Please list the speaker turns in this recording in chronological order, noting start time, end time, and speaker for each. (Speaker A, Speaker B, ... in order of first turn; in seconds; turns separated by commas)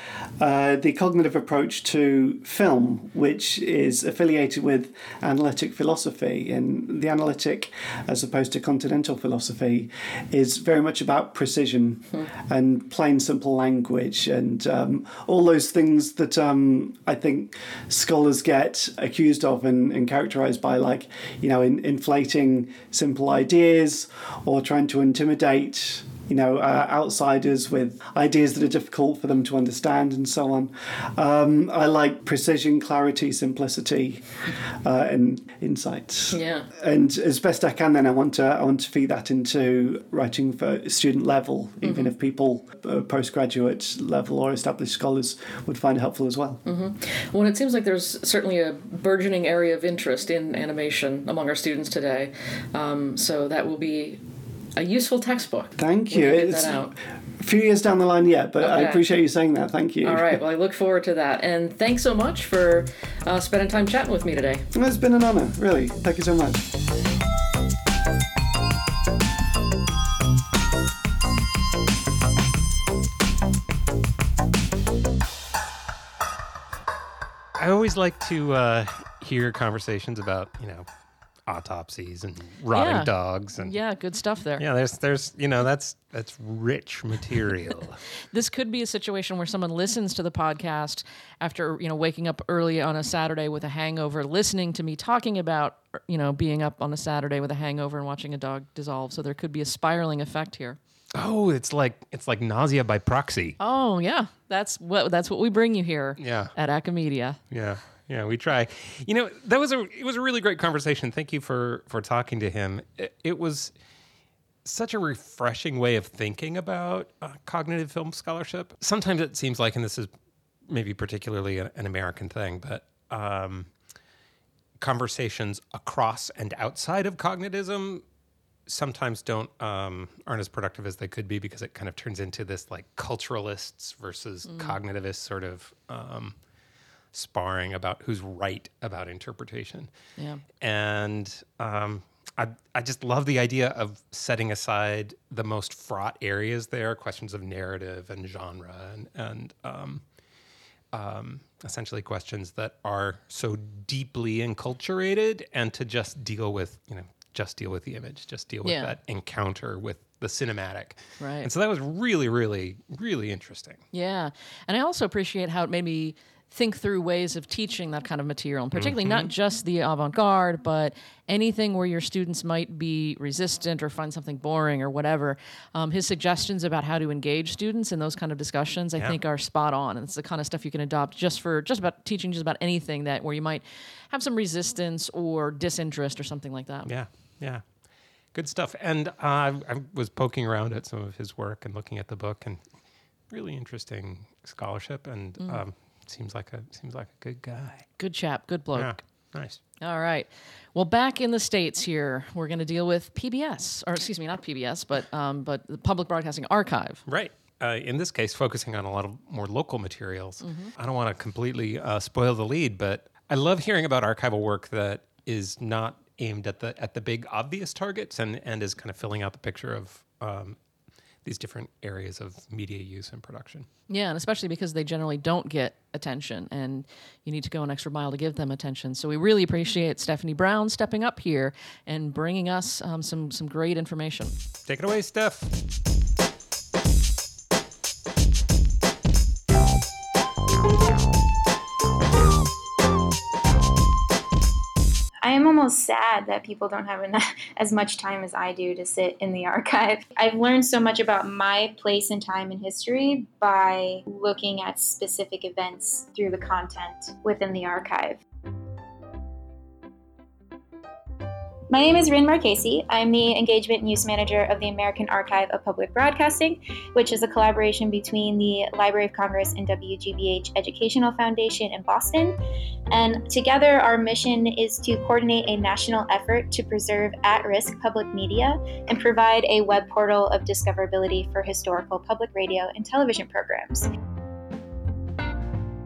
Speaker A: 0.4-34.3, Speaker A: 34.8-46.6, Speaker B: 36.3-36.7, Speaker B: 41.8-42.1, Speaker B: 46.6-54.2, Speaker B: 54.8-56.9, Speaker A: 55.8-56.8, Speaker A: 57.4-60.4, Speaker B: 58.6-59.0, Speaker B: 60.0-64.7, Speaker A: 64.7-66.7, Speaker C: 77.6-80.9, Speaker C: 81.5-83.8, Speaker B: 82.7-84.6, Speaker C: 84.6-88.0, Speaker B: 88.3-100.8, Speaker C: 101.2-103.6, Speaker B: 103.6-107.4, Speaker C: 106.2-106.5, Speaker C: 107.5-113.7, Speaker C: 114.7-120.1, Speaker C: 120.7-123.7, Speaker C: 124.8-128.0, Speaker C: 128.7-136.3, Speaker B: 134.4-134.8, Speaker C: 137.1-139.9, Speaker B: 140.2-140.4, Speaker C: 140.6-150.0, Speaker C: 150.9-163.8, Speaker B: 158.6-158.9, Speaker B: 161.2-161.5, Speaker B: 163.9-186.9, Speaker C: 168.8-169.3, Speaker C: 186.9-187.7, Speaker C: 188.3-192.6, Speaker C: 193.3-197.9, Speaker B: 198.0-199.0, Speaker C: 198.7-199.6, Speaker B: 199.8-207.0, Speaker C: 207.1-220.6, Speaker B: 210.4-210.7, Speaker C: 221.2-223.7, Speaker B: 223.9-234.3, Speaker C: 234.7-235.5, Speaker D: 245.2-258.2, Speaker D: 261.7-272.4, Speaker D: 272.9-283.9